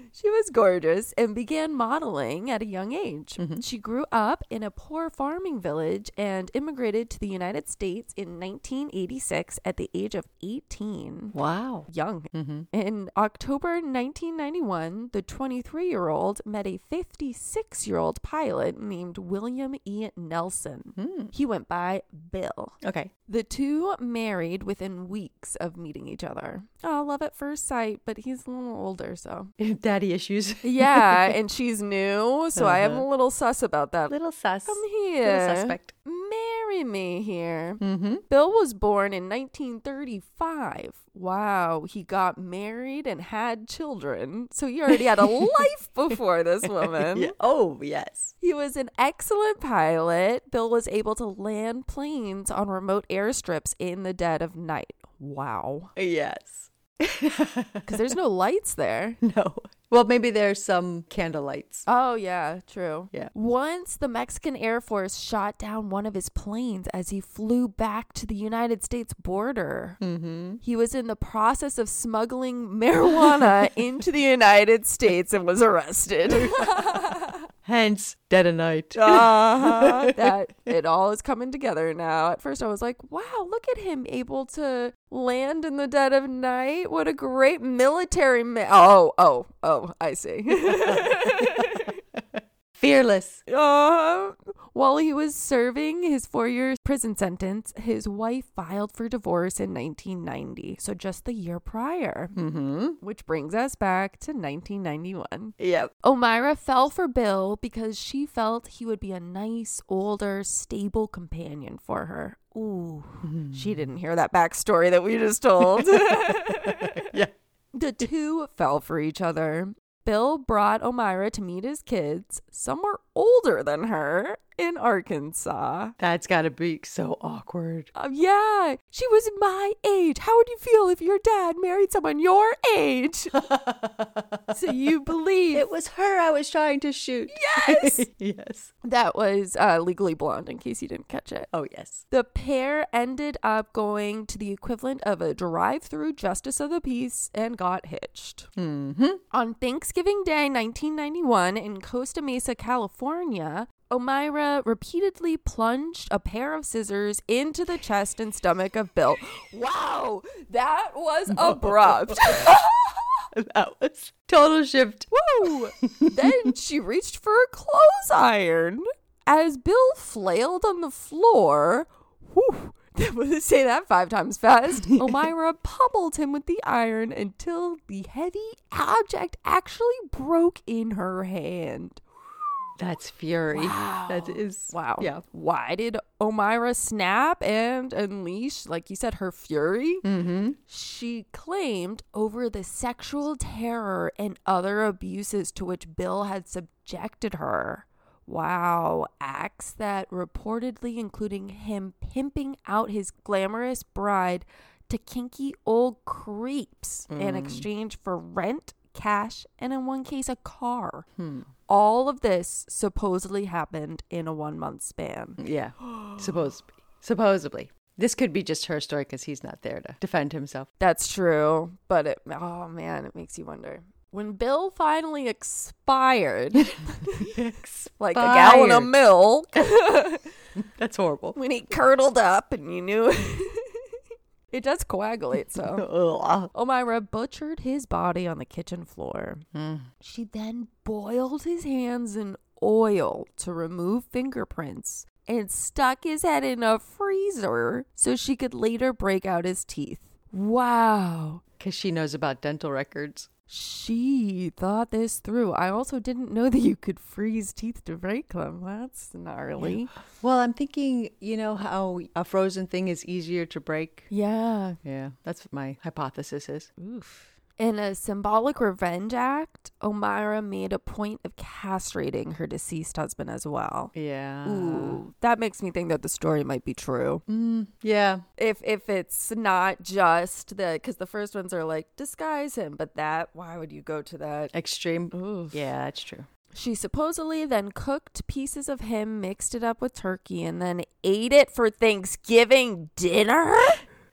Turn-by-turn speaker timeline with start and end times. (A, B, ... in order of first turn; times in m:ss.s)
0:00.1-0:11.4 A
0:03.4-0:03.6 B
0:11.3-0:12.7 B
0:11.9-0:22.8 A
0:21.0-0:21.3 B
0:22.8-0:23.1 B
0:23.3-0:29.5 A
0:29.6-0:31.3 B
0:30.6-0:34.2 A
0:32.5-0:33.0 B
0:34.1-0:35.9 B
0:34.7-0:47.3 A
0:37.8-0:38.2 B
0:44.9-0:45.3 B
0:46.8-0:48.3 B
0:48.4-0:55.9 A
0:56.0-0:58.0 B
0:57.8-0:59.2 A
0:59.2-1:01.8 B
1:01.9-1:10.0 A
1:10.0-1:10.6 B
1:10.6-1:17.4 A
1:16.2-1:17.0 B
1:17.6-1:20.2 B
1:18.9-1:32.0 A
1:30.9-1:31.5 B
1:32.8-1:33.4 B
1:33.5-1:42.3 A
1:42.3-1:43.0 B
1:43.0-1:57.2 A
1:45.6-1:45.9 B
1:53.2-1:53.8 B
1:56.8-1:57.3 B
1:57.7-2:05.9 A
2:06.0-2:07.9 B
2:07.9-2:13.3 A
2:13.4-2:14.3 B
2:14.5-2:15.7 A
2:15.5-2:18.7 B
2:17.3-2:18.1 A
2:18.8-2:21.5 A
2:21.5-2:22.0 B
2:22.1-2:28.5 A
2:28.6-2:29.2 B
2:29.3-2:43.1 A
2:41.3-2:42.5 B
2:43.3-2:45.2 B
2:45.1-3:02.0 A
2:45.8-2:46.5 B
3:02.8-3:05.2 B
3:03.5-3:10.0 A
3:10.0-3:10.6 B
3:10.7-3:31.0 A
3:27.1-3:27.7 B
3:31.2-3:31.5 B
3:31.7-3:36.4 A
3:35.4-3:40.7 B
3:40.8-3:47.3 A
3:47.2-3:48.9 B
3:48.0-3:50.3 A
3:50.6-3:51.4 B
3:51.3-3:53.9 A
3:54.5-3:55.8 A
3:55.3-3:56.5 B
3:56.5-3:59.4 A
3:59.5-3:59.9 B
4:00.0-4:11.4 A
4:11.6-4:13.3 B
4:13.5-4:19.9 A
4:19.6-4:24.1 B
4:24.1-4:24.8 A
4:24.8-4:26.7 B
4:26.8-4:33.9 A
4:33.9-4:35.0 B
4:34.4-4:37.2 A
4:37.3-4:38.2 B
4:38.4-4:44.5 A
4:44.5-4:46.3 B
4:45.1-4:45.7 A
4:46.5-4:53.8 A